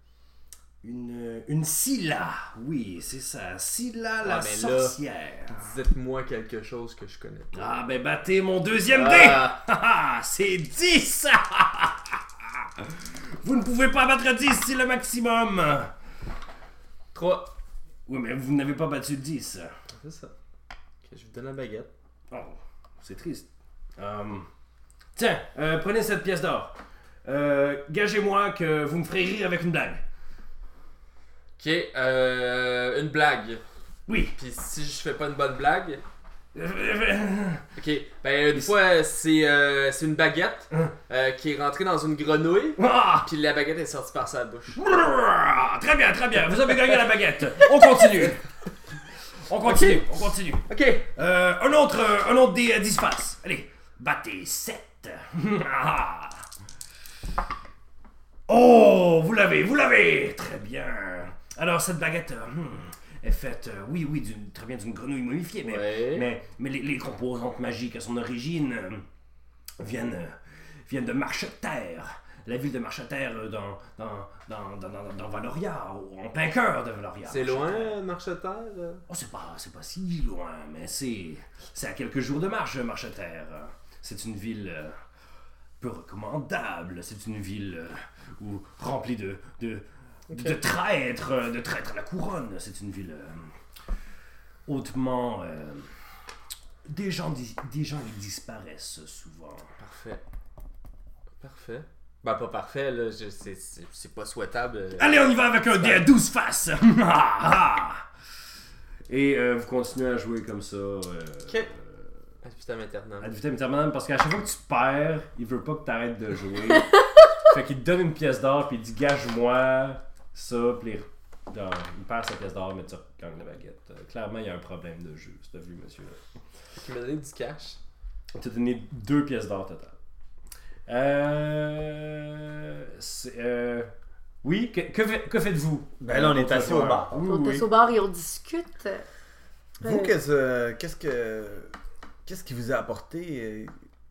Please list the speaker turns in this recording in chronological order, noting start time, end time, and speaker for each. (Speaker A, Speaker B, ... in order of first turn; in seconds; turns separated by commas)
Speaker A: 0.8-5.7, Speaker B: 4.2-5.0, Speaker B: 5.5-7.7, Speaker A: 7.5-15.9, Speaker B: 8.9-9.6, Speaker B: 17.1-17.5, Speaker A: 18.1-19.7, Speaker B: 19.9-20.3, Speaker B: 21.0-21.9, Speaker A: 22.3-24.5, Speaker A: 25.2-30.0, Speaker B: 31.6-33.6, Speaker A: 34.1-34.4, Speaker B: 34.4-36.0, Speaker A: 36.5-37.6, Speaker B: 37.8-44.8, Speaker A: 42.8-43.3, Speaker A: 44.8-48.5, Speaker B: 47.6-48.3, Speaker A: 49.5-56.5, Speaker B: 49.6-51.1, Speaker A: 58.5-69.0, Speaker B: 65.6-66.3, Speaker A: 69.8-78.0, Speaker B: 77.2-79.0, Speaker A: 79.1-85.0, Speaker A: 85.8-93.5, Speaker B: 90.3-90.6, Speaker A: 94.7-95.9, Speaker A: 96.8-99.7, Speaker B: 99.8-100.2, Speaker B: 101.4-106.1, Speaker A: 105.0-108.0, Speaker A: 109.1-111.9, Speaker B: 112.4-113.3, Speaker A: 113.2-126.2, Speaker B: 126.8-127.8, Speaker A: 128.3-130.0, Speaker A: 130.9-133.9, Speaker A: 134.4-137.7, Speaker C: 136.0-137.2, Speaker D: 137.2-139.1, Speaker C: 139.8-141.7, Speaker D: 139.8-140.2, Speaker C: 142.3-143.7